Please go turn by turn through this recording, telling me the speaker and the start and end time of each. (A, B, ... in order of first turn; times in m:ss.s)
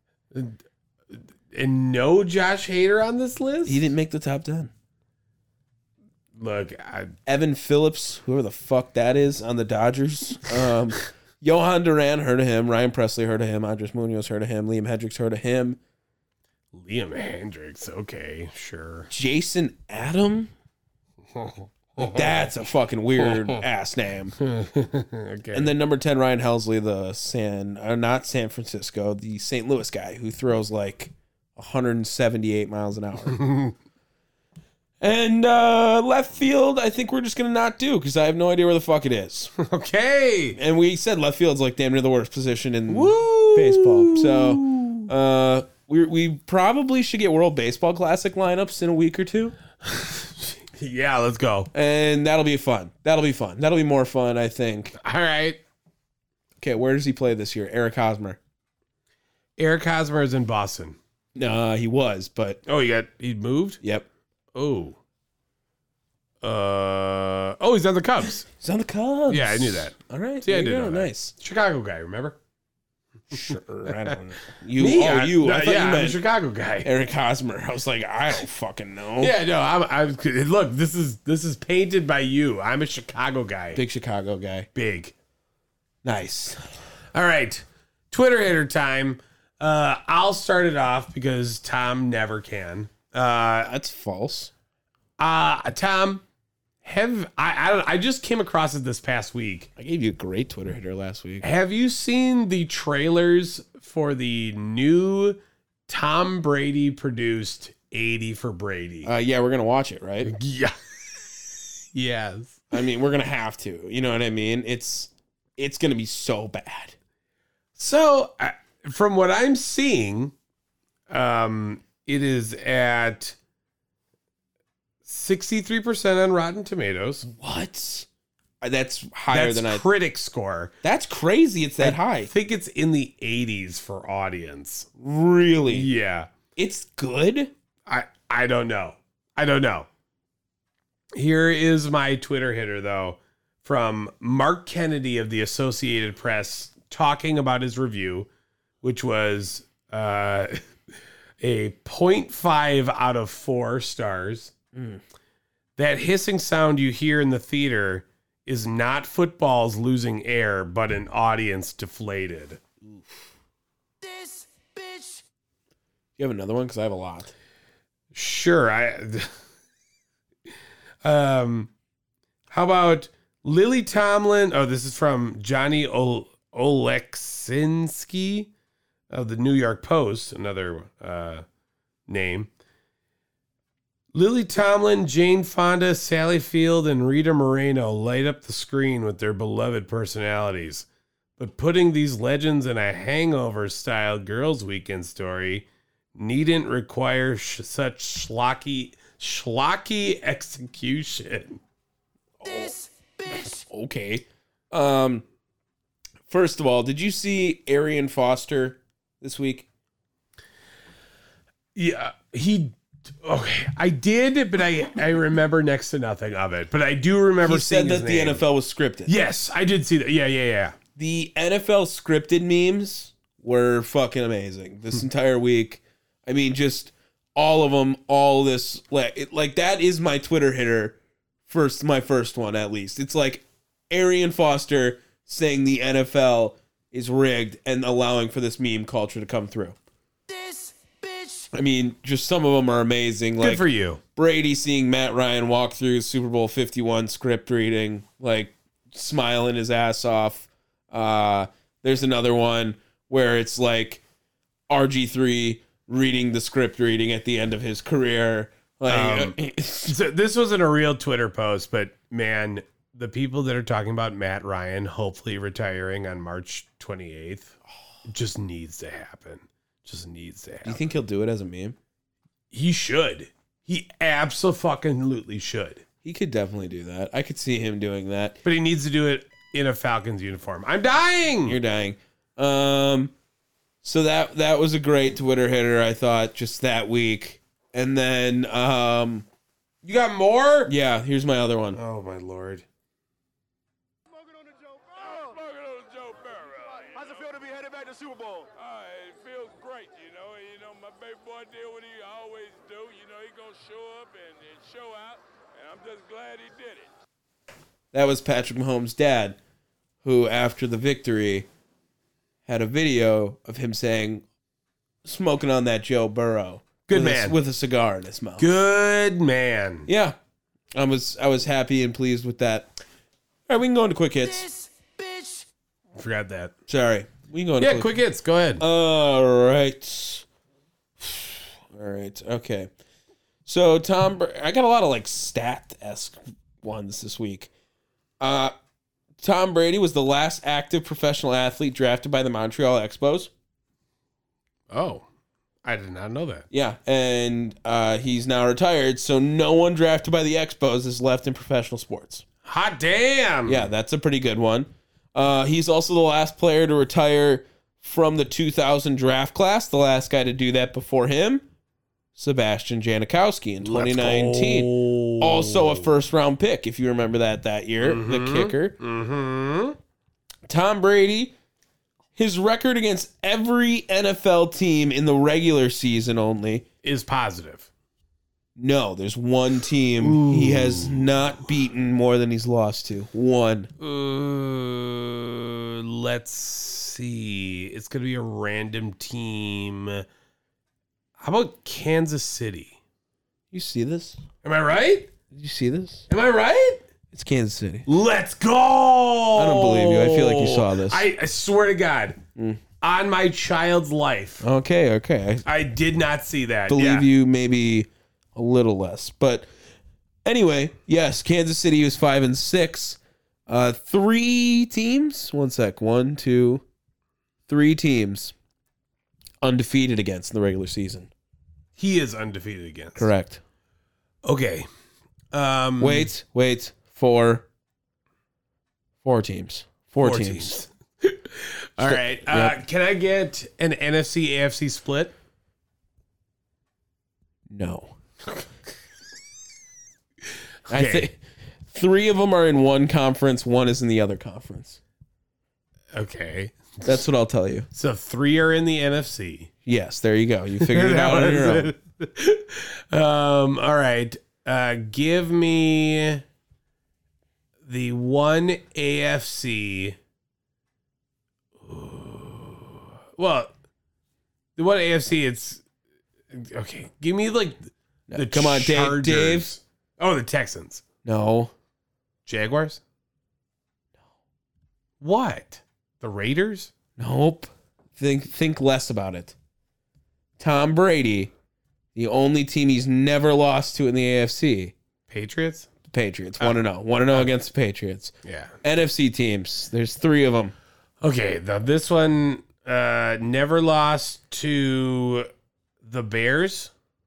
0:00.3-0:00.6 A
0:01.1-0:03.9 A
0:03.6-0:04.7 B
0:06.3-0:07.1 A
0:07.3-0:15.8 B
0:16.7-0:19.1 A
0:19.1-0:20.5 B
0:21.4-0:22.3 A
0:22.0-0:24.4 B
0:23.2-0:23.6 A
0:24.4-0:25.7 A
0:25.5-0:33.4 B
0:33.3-0:33.7 A
0:35.0-0:39.5 B
0:39.6-0:40.6 A
0:40.6-0:49.6 B
0:42.9-0:45.1 A
0:49.8-0:51.7 A
0:51.7-0:55.0 B
0:55.0-0:55.6 A
0:56.6-0:58.4 B
0:59.6-1:01.0 A
1:01.4-1:02.6 B
1:02.7-1:03.8 A
1:04.5-1:05.0 A
1:06.4-1:08.5 A
1:08.6-1:11.3 B
1:09.3-1:12.4 A
1:13.3-1:16.2 B
1:13.9-1:14.2 A
1:14.8-1:16.9 A
1:16.8-1:19.4 B
1:19.2-1:23.8 A
1:23.8-1:24.7 B
1:24.8-1:25.1 A
1:26.0-1:26.6 B
1:27.1-1:33.7 A
1:33.7-1:34.5 B
1:35.2-1:36.2 A
1:36.8-1:39.7 A
1:39.8-1:41.5 B
1:41.4-1:49.1 A
1:49.0-1:50.3 B
1:50.2-1:52.7 A
1:52.7-1:57.0 B
1:57.8-2:00.3 A
2:01.1-2:03.4 A
2:05.0-2:07.3 A
2:07.2-2:08.1 B
2:08.6-2:09.8 B
2:09.3-2:10.7 A
2:10.8-2:12.3 B
2:11.8-2:14.9 A
2:15.0-2:15.9 B
2:15.7-2:16.3 A
2:16.6-2:17.5 B
2:17.9-2:19.9 A
2:21.2-2:28.3 A
2:28.8-2:30.6 A
2:31.4-2:34.5 A
2:34.8-2:35.0 B
2:35.8-2:42.6 A
2:46.2-2:47.3 B
2:48.1-2:49.3 A
2:51.0-2:51.7 A
2:52.5-2:58.5 A
2:59.1-3:01.4 A
3:02.1-3:02.5 A
3:04.1-3:10.9 A
3:11.4-3:21.6 A
3:22.4-3:25.2 B
3:26.3-3:29.7 B
3:31.8-3:38.4 A
3:37.4-3:39.1 B
3:39.1-3:40.8 A
3:41.0-3:59.8 B
4:01.5-4:14.0 B
4:03.4-4:04.0 A
4:14.7-4:20.0 B
4:18.9-4:30.8 A
4:30.6-4:31.8 B
4:32.5-4:35.8 A
4:36.0-4:38.4 B
4:38.4-4:41.6 A
4:41.5-4:43.1 B
4:43.8-4:49.3 B
4:49.8-4:50.7 A
4:50.7-4:51.8 B
4:51.8-4:52.6 A
4:54.7-5:06.9 C
5:07.9-5:09.4 B
5:10.0-5:11.5 B
5:12.5-5:14.2 B
5:15.0-5:18.5 B
5:16.9-5:17.4 A
5:18.4-5:19.9 A
5:19.9-5:20.2 B
5:20.8-5:22.7 B
5:23.5-5:24.5 B
5:26.0-5:26.5 A
5:26.7-5:28.0 B
5:27.6-5:28.6 A
5:28.6-5:30.2 B
5:31.0-5:32.7 B
5:33.5-5:37.5 B
5:38.2-5:38.5 B
5:39.2-5:43.3 B
5:44.7-5:45.1 A
5:45.6-5:46.5 A
5:46.5-5:52.2 B
5:52.4-5:53.7 A
5:53.5-6:01.4 B
6:02.2-6:08.8 B
6:03.6-6:05.9 A
6:07.8-6:09.8 A
6:10.5-6:11.3 B
6:12.2-6:16.6 B
6:16.8-6:17.7 A
6:18.6-6:23.7 B
6:20.0-6:21.4 A
6:23.8-6:30.0 A
6:31.2-6:32.8 A
6:33.5-6:34.2 B
6:34.4-6:35.1 A
6:35.3-6:36.1 B
6:36.1-6:36.8 A
6:37.1-6:37.9 B
6:37.9-6:42.2 A
6:39.4-6:41.0 B
6:42.4-6:42.6 B
6:42.8-6:44.4 A
6:44.4-6:45.4 B
6:45.4-6:47.1 A
6:46.7-6:49.5 B
6:50.2-6:56.6 B
6:57.5-6:58.3 B
6:59.4-7:01.1 B
7:01.8-7:03.1 A
7:03.0-7:03.4 B
7:04.2-7:04.7 A
7:05.3-7:06.1 A
7:05.8-7:07.5 B
7:09.0-7:10.6 B
7:10.0-7:15.1 A
7:11.8-7:12.6 B
7:17.5-7:18.0 B
7:20.7-7:21.1 A
7:20.7-7:21.2 B
7:21.7-7:24.8 B
7:25.9-7:27.0 A
7:26.8-7:27.7 B
7:27.7-7:29.5 A
7:29.6-7:31.7 B
7:30.6-7:36.2 A
7:37.6-7:40.0 A
7:41.6-7:43.5 A
7:44.6-7:45.6 A
7:46.3-7:50.8 A
7:48.1-7:49.5 B
7:51.0-7:51.5 B
7:52.3-7:52.8 A
7:55.0-7:56.7 A
7:57.0-7:59.4 B
8:00.4-8:01.3 B
8:02.0-8:04.7 B
8:05.1-8:05.7 A
8:05.9-8:10.5 B
8:06.4-8:07.3 A
8:08.2-8:08.6 A
8:11.0-8:15.3 A
8:15.8-8:16.7 A